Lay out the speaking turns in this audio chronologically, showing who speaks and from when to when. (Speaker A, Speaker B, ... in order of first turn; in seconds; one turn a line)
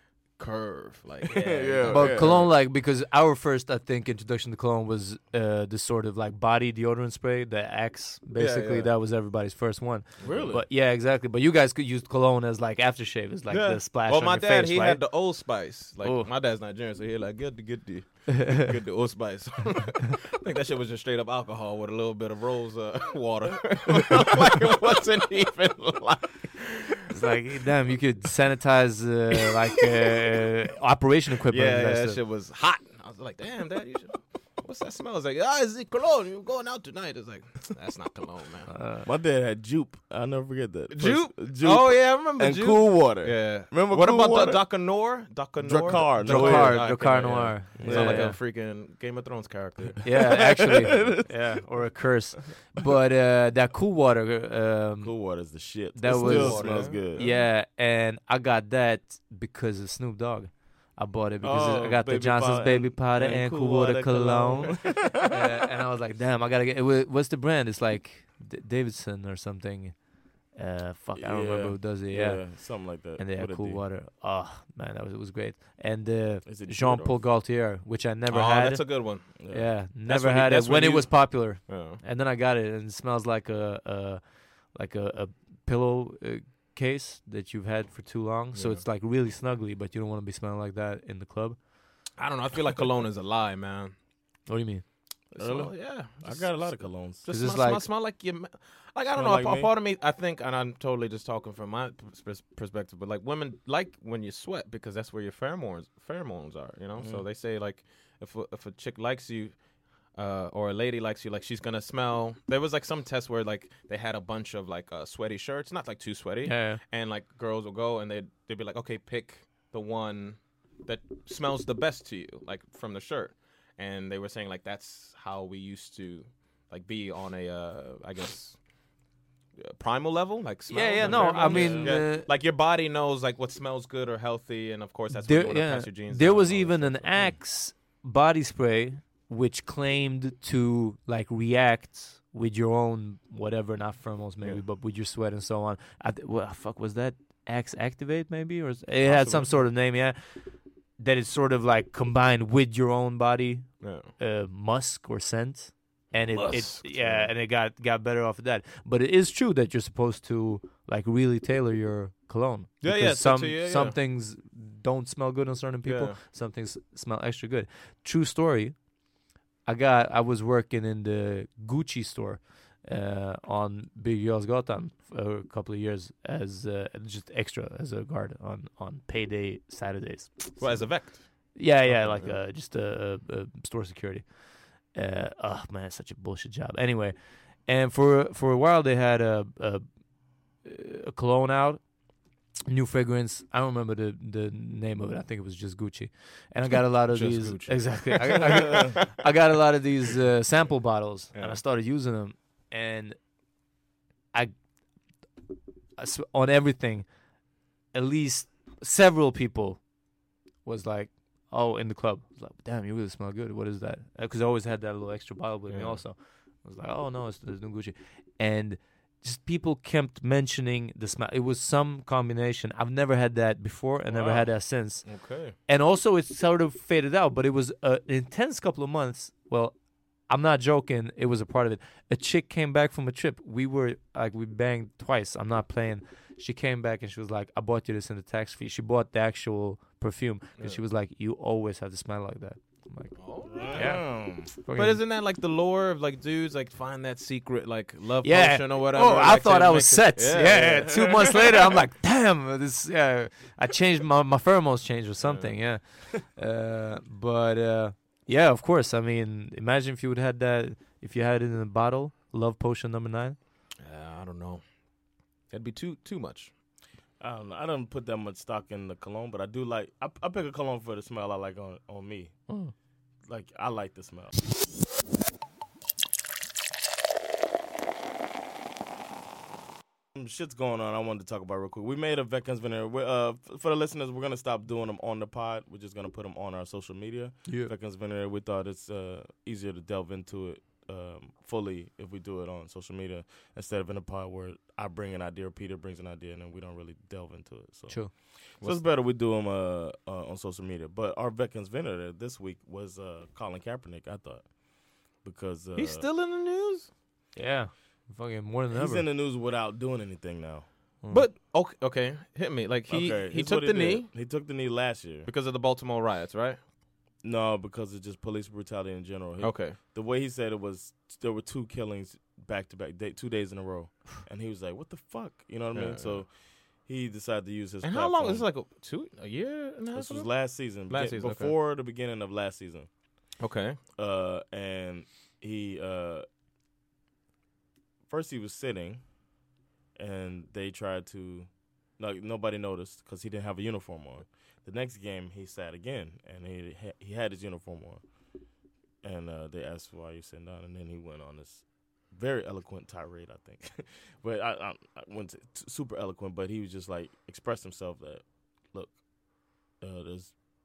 Speaker A: 0.4-2.5
Speaker B: 1.3-2.5
Speaker C: 1.9-15.1
Speaker A: 8.4-8.9
Speaker B: 10.2-10.7
Speaker A: 10.2-10.5
Speaker A: 13.5-27.1
Speaker C: 16.0-16.3
Speaker C: 27.1-32.2
Speaker A: 31.5-38.7
Speaker C: 38.7-39.1
Speaker B: 39.0-44.6
Speaker A: 40.9-50.0
Speaker B: 45.6-46.9
Speaker C: 46.1-48.4
Speaker B: 47.8-48.3
Speaker B: 49.8-51.4
Speaker C: 50.0-55.2
Speaker B: 55.0-57.4
Speaker C: 56.0-70.0
Speaker A: 56.1-57.1
Speaker B: 61.4-65.5
Speaker C: 70.5-84.2
Speaker B: 71.2-73.8
Speaker B: 76.5-77.2
Speaker A: 78.3-79.3
Speaker B: 79.4-79.8
Speaker A: 80.0-82.0
Speaker C: 84.7-91.6
Speaker A: 88.5-88.8
Speaker A: 92.2-94.0
Speaker C: 94.5-94.8
Speaker A: 95.3-109.6
Speaker B: 95.4-97.3
Speaker C: 97.3-97.8
Speaker B: 99.1-99.7
Speaker B: 107.0-107.2
Speaker A: 110.1-128.6
Speaker C: 116.5-116.8
Speaker A: 129.6-137.3
Speaker C: 130.7-132.3
Speaker B: 131.0-132.1
Speaker C: 135.1-168.8
Speaker A: 149.1-149.6
Speaker A: 153.8-154.1
Speaker A: 156.3-157.3
Speaker A: 162.8-164.0
Speaker A: 165.8-166.2
Speaker C: 169.7-181.0
Speaker A: 180.6-181.3
Speaker C: 181.6-189.8
Speaker A: 181.9-182.4
Speaker C: 190.6-191.8
Speaker C: 192.7-203.2
Speaker A: 197.1-199.1
Speaker B: 198.7-198.9
Speaker A: 201.3-201.6
Speaker C: 206.0-207.1
Speaker C: 207.9-209.8
Speaker C: 210.7-225.1
Speaker A: 215.7-216.0
Speaker A: 224.1-224.5
Speaker A: 225.0-225.6
Speaker C: 225.7-229.8
Speaker C: 230.3-243.2
Speaker A: 243.2-244.0
Speaker B: 243.5-244.5
Speaker C: 243.7-245.0
Speaker A: 244.7-251.4
Speaker C: 248.2-263.4
Speaker A: 255.2-255.6
Speaker A: 263.8-264.6
Speaker A: 265.5-266.5
Speaker B: 267.2-272.3
Speaker B: 273.3-274.3
Speaker B: 280.1-304.5
Speaker C: 287.5-287.7
Speaker B: 305.2-306.1
Speaker A: 305.8-306.9
Speaker C: 307.4-309.1
Speaker B: 308.7-310.7
Speaker A: 311.1-314.1
Speaker B: 312.9-315.3
Speaker A: 315.3-316.6
Speaker B: 317.2-326.3
Speaker A: 319.4-319.8
Speaker A: 325.7-326.2
Speaker B: 326.9-328.5
Speaker A: 327.8-331.6
Speaker B: 329.9-332.9
Speaker A: 333.4-333.8
Speaker B: 334.0-336.3
Speaker B: 338.1-339.0
Speaker B: 340.0-341.5
Speaker B: 342.0-348.0
Speaker B: 349.0-359.0
Speaker B: 359.8-360.3